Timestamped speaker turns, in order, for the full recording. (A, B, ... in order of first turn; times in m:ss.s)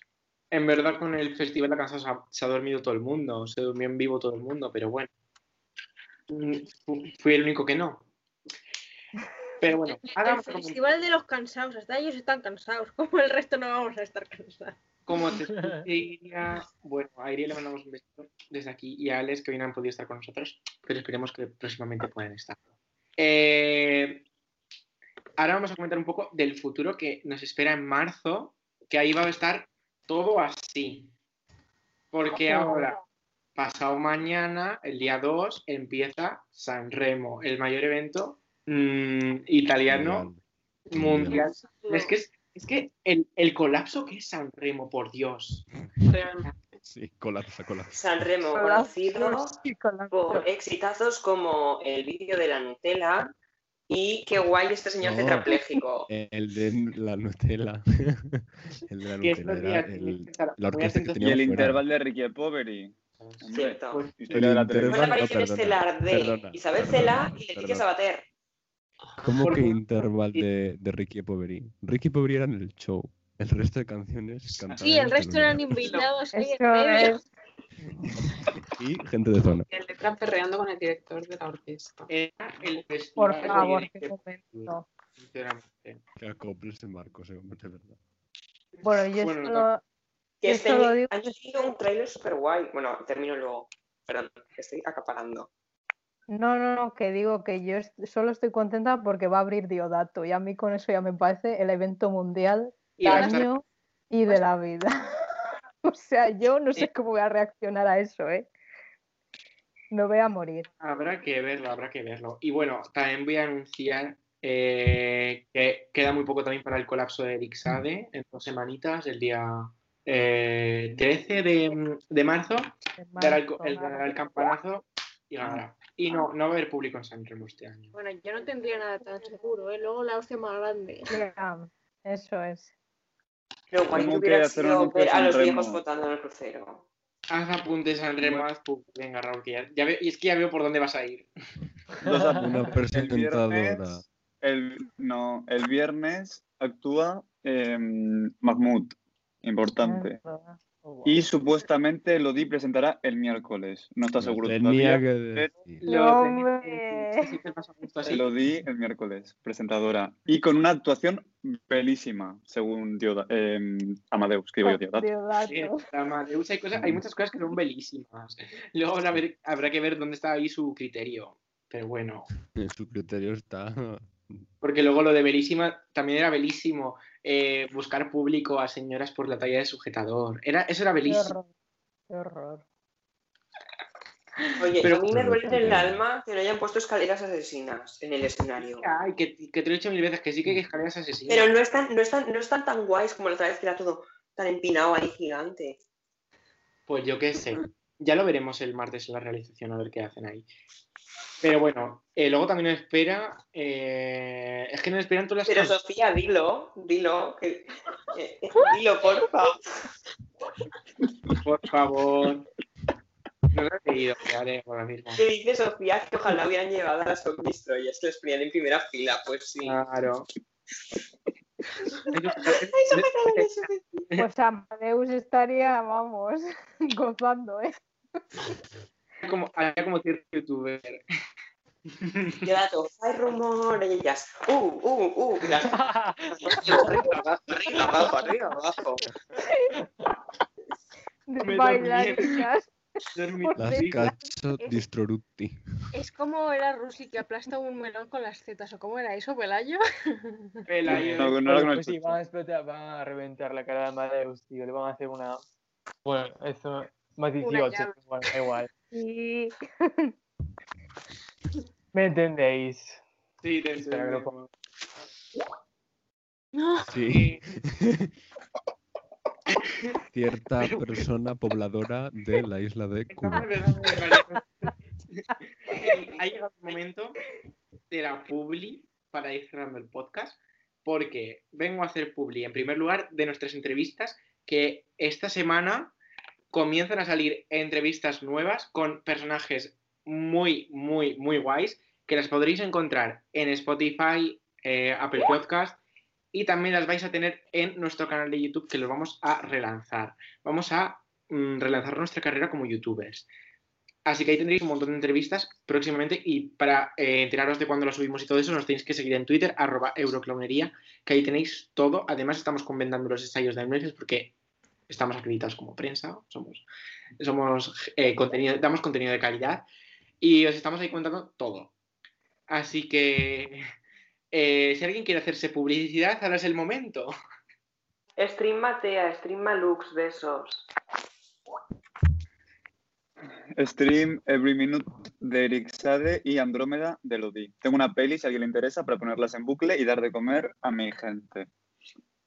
0:00.5-0:05.1 A
0:06.3-0:08.1 A
0:09.6-0:10.9 A
0:09.7-0:14.8 B
0:15.1-0:22.6 A
0:15.5-0:15.8 C
0:23.2-0:24.2 A
0:25.4-0:31.1 A
0:32.1-0:33.0 A
0:32.4-0:32.9 D
0:33.6-0:40.3 A
0:39.9-0:40.4 E
0:40.9-0:45.6 A
0:40.9-0:41.4 E
0:41.3-0:42.1 F
0:46.0-0:46.5 F
0:46.8-0:48.0 E
0:47.9-0:53.3 G
0:48.5-0:50.5 D
0:53.9-0:56.1 G
0:55.0-0:55.5 E
0:55.5-0:55.8 D
0:56.1-1:01.8 E
0:59.2-1:01.3 A
1:01.2-1:05.1 H
1:03.2-1:04.4 A
1:03.5-1:04.1 G
1:04.3-1:07.8 E
1:04.8-1:08.2 G
1:09.2-1:15.8 E
1:09.4-1:09.8 A
1:14.7-1:17.2 B
1:16.3-1:17.2 D
1:18.4-1:19.7 E
1:19.7-1:22.1 F
1:22.1-1:26.0 A
1:23.2-1:24.8 D
1:26.2-1:28.0 E
1:28.8-1:29.7 A
1:28.8-1:29.8 D
1:30.4-1:35.5 G
1:30.4-1:31.3 D
1:36.3-1:44.9 D
1:43.0-1:43.5 A
1:45.9-1:48.5 D
1:49.9-1:50.7 D
1:50.8-2:07.9 A
2:03.0-2:04.4 D
2:07.9-2:11.1 B
2:11.1-2:12.7 D
2:13.7-2:16.8 G
2:13.9-2:15.8 H
2:17.3-2:21.3 A
2:22.0-2:30.2 H
2:22.0-2:22.6 C
2:22.3-2:24.0 E
2:29.8-2:31.3 D
2:31.0-2:35.5 H
2:34.2-2:35.8 E
2:35.8-2:37.4 D
2:35.8-2:38.2 A
2:38.0-2:45.1 H
2:44.6-2:45.9 D
2:45.4-2:52.3 A
2:52.5-2:54.4 E
2:54.6-3:01.4 A
3:01.0-3:01.5 D
3:02.1-3:02.6 D
3:04.6-3:08.9 G
3:04.9-3:06.0 E
3:08.6-3:11.5 A
3:11.3-3:15.8 G
3:16.9-3:20.5 A
3:21.4-3:25.7 A
3:25.4-3:29.6 G
3:31.4-3:32.5 A
3:33.5-3:35.2 A
3:35.1-3:39.8 G
3:39.6-3:40.3 A
3:42.1-3:43.5 A
3:42.5-3:44.0 B
3:44.2-3:47.8 D
3:49.2-3:51.0 A
3:52.0-3:52.4 A
3:52.4-3:55.8 G
3:55.7-3:56.7 C
3:56.4-3:59.1 G
3:59.4-3:59.7 D
4:01.3-4:02.7 D
4:01.4-4:02.4 A
4:03.1-4:04.0 A
4:03.4-4:04.3 D
4:03.6-4:05.6 E
4:04.6-4:04.8 B
4:05.9-4:10.5 B
4:10.6-4:11.7 A
4:10.9-4:12.2 H
4:10.9-4:15.4 C
4:16.0-4:18.7 C
4:17.4-4:18.4 B
4:18.9-4:20.1 D
4:21.9-4:23.0 C
4:23.4-4:24.5 A
4:23.8-4:24.3 C
4:26.5-4:26.9 B
4:26.9-4:28.1 E
4:27.1-4:27.4 A
4:29.5-4:30.0 A
4:30.1-4:33.5 E
4:30.6-4:30.8 A
4:33.1-4:37.2 A
4:37.9-4:45.9 A
4:46.5-4:55.8 A
4:56.3-5:03.3 A
5:04.0-5:14.3 A
5:14.9-5:16.6 A
5:17.2-5:19.6 A
5:20.2-5:21.7 A
5:22.5-5:23.6 A
5:24.3-5:27.1 A
5:28.2-5:30.6 G
5:33.6-5:41.5 H